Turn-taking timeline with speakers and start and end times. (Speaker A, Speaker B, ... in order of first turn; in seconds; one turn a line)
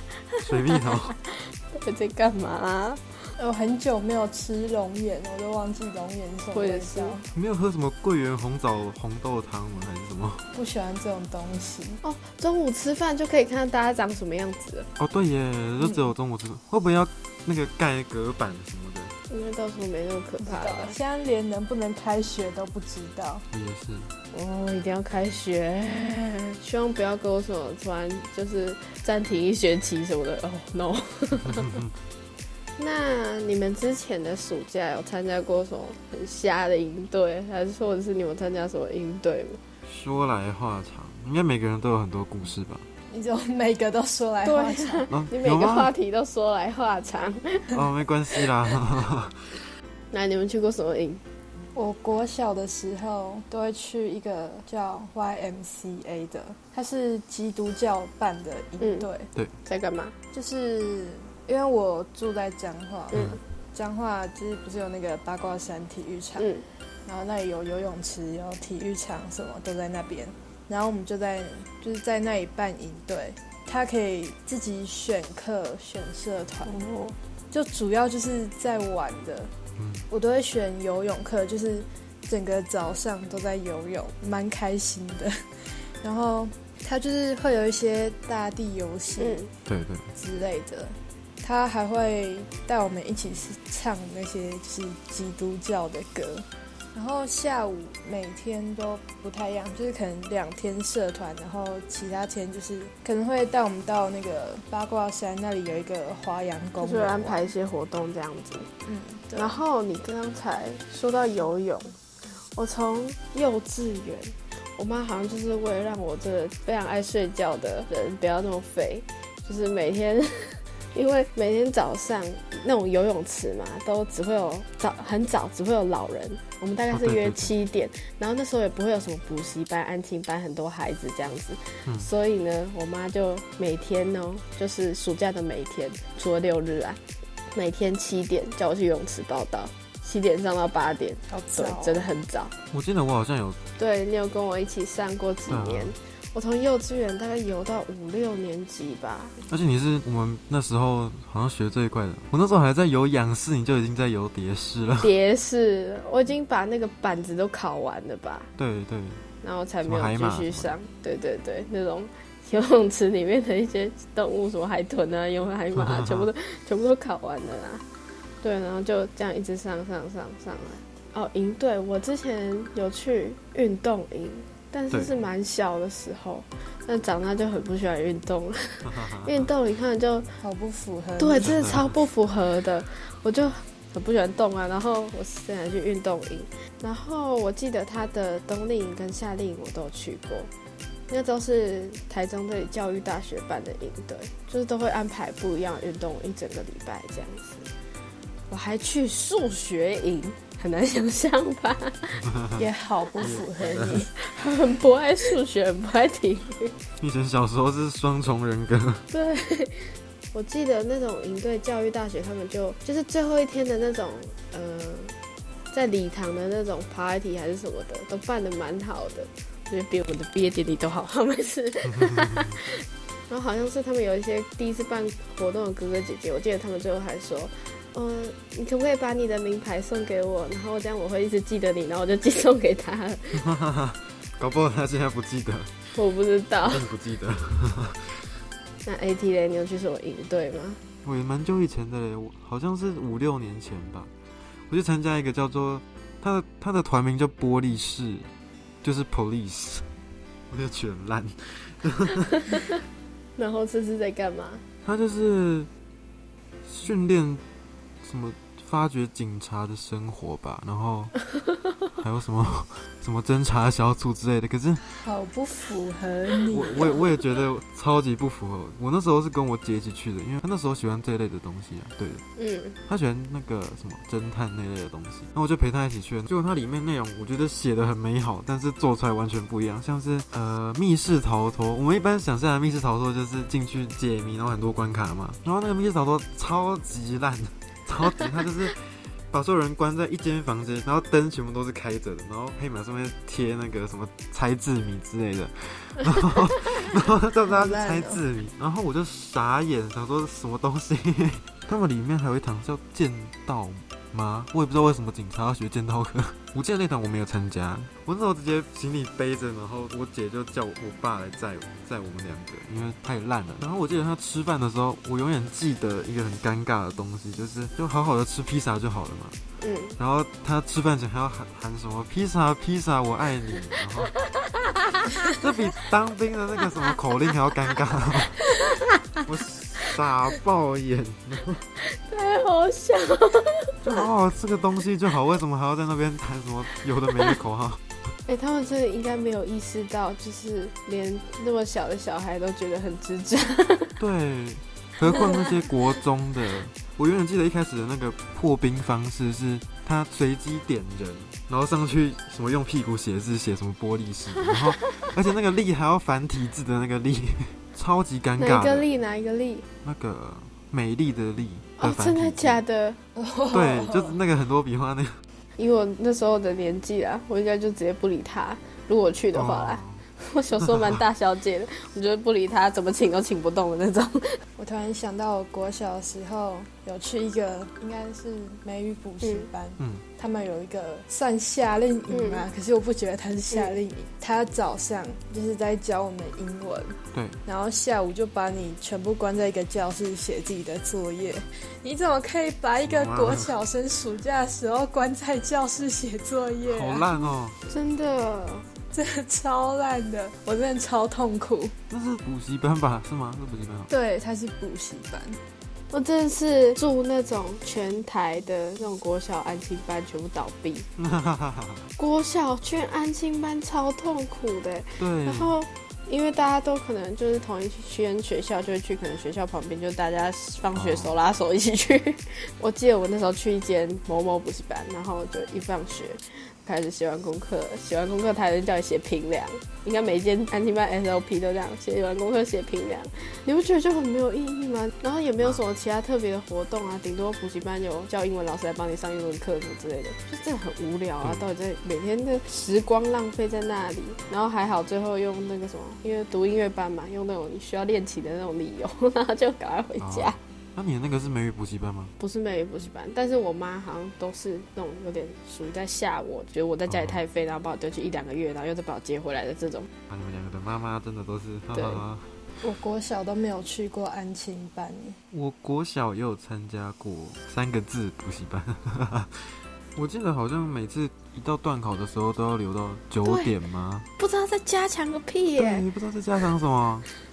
Speaker A: 0.4-1.1
Speaker B: 0.7-3.1
Speaker C: 3.4-7.3
Speaker B: 6.5-7.2
Speaker A: 7.3-10.4
Speaker C: 10.5-12.0
Speaker B: 12.0-14.9
Speaker A: 15.0-19.1
Speaker C: 15.8-16.1
Speaker B: 19.3-20.9
Speaker C: 20.4-23.4
Speaker A: 23.5-24.1
Speaker B: 24.3-31.8
Speaker A: 31.5-31.9
Speaker B: 32.8-39.6
Speaker A: 39.9-42.8
Speaker C: 43.1-45.0
Speaker B: 44.4-47.8
Speaker A: 45.1-45.9
Speaker A: 47.7-49.5
Speaker B: 50.1-51.2
Speaker C: 51.7-59.3
Speaker B: 58.8-59.1
Speaker B: 59.6-60.1
Speaker C: 60.3-66.5
Speaker B: 63.1-63.4
Speaker A: 63.1-63.4
Speaker B: 66.4-66.6
Speaker C: 67.0-76.8
Speaker B: 76.6-77.2
Speaker C: 77.5-79.5
Speaker A: 79.8-80.0
Speaker C: 80.1-85.3
Speaker C: 86.0-89.4
Speaker B: 89.2-89.5
Speaker A: 89.7-90.1
Speaker C: 90.1-107.5
Speaker B: 106.8-108.7
Speaker C: 108.8-109.6
Speaker B: 109.3-111.9
Speaker B: 112.5-137.0
Speaker A: 126.9-127.5
Speaker B: 137.5-142.5
Speaker C: 141.3-142.1
Speaker A: 142.7-143.6
Speaker B: 143.8-149.3
Speaker A: 145.5-145.9
Speaker A: 149.5-155.1
Speaker B: 155.0-158.5
Speaker A: 158.6-159.2
Speaker B: 159.4-167.8
Speaker A: 159.8-160.8
Speaker A: 165.7-166.3
Speaker B: 168.4-180.3
Speaker A: 174.9-175.2
Speaker A: 178.8-179.5
Speaker C: 180.4-181.8
Speaker B: 181.2-190.5
Speaker A: 181.4-181.9
Speaker B: 191.1-197.7
Speaker B: 198.5-202.2
Speaker A: 202.2-202.6
Speaker C: 202.6-204.1
Speaker A: 203.2-204.0
Speaker B: 203.2-206.7
Speaker A: 207.0-209.1
Speaker B: 209.1-215.2
Speaker B: 215.7-233.4
Speaker A: 221.9-222.5
Speaker A: 233.3-235.9
Speaker B: 235.9-236.8
Speaker A: 236.6-238.2
Speaker B: 238.8-240.8
Speaker A: 241.0-244.1
Speaker A: 244.7-248.3
Speaker A: 248.8-249.9
Speaker A: 250.5-252.6
Speaker B: 253.4-254.6
Speaker A: 254.8-255.7
Speaker A: 256.6-257.4
Speaker A: 258.0-261.3
Speaker A: 261.9-264.9
Speaker C: 264.8-267.0
Speaker A: 266.5-272.2
Speaker B: 266.7-267.0
Speaker B: 272.4-272.8
Speaker A: 272.9-319.4
Speaker C: 297.5-298.2
Speaker B: 319.6-320.0
Speaker A: 320.0-324.1
Speaker B: 324.3-325.4
Speaker A: 325.2-328.4
Speaker B: 328.4-329.0
Speaker A: 329.2-331.6
Speaker B: 331.8-334.1
Speaker A: 333.8-337.8
Speaker B: 338.3-343.9
Speaker A: 344.0-358.9
Speaker B: 345.1-345.5
Speaker B: 354.8-355.1
Speaker B: 358.4-359.6
Speaker A: 359.8-362.6
Speaker B: 361.8-363.0
Speaker C: 363.1-364.2
Speaker A: 363.5-365.2
Speaker B: 365.6-374.4
Speaker A: 369.3-370.1
Speaker A: 370.6-370.9
Speaker C: 374.6-397.2
Speaker B: 379.2-379.5
Speaker A: 379.8-380.0
Speaker B: 382.1-382.4
Speaker A: 387.1-387.4
Speaker A: 392.9-393.5
Speaker A: 396.6-397.6
Speaker B: 397.6-398.7
Speaker C: 398.9-401.7
Speaker A: 401.9-403.9
Speaker C: 403.9-405.4
Speaker B: 405.9-410.9
Speaker A: 411.0-411.9
Speaker B: 412.0-450.4
Speaker A: 415.0-415.6
Speaker A: 420.7-421.2
Speaker A: 441.2-441.5
Speaker A: 450.0-452.1
Speaker B: 452.2-459.9
Speaker A: 456.9-457.2
Speaker A: 460.1-462.4
Speaker B: 461.7-462.0
Speaker C: 462.6-465.2
Speaker A: 465.3-474.1
Speaker B: 473.2-473.5
Speaker B: 474.2-475.8
Speaker A: 475.6-477.1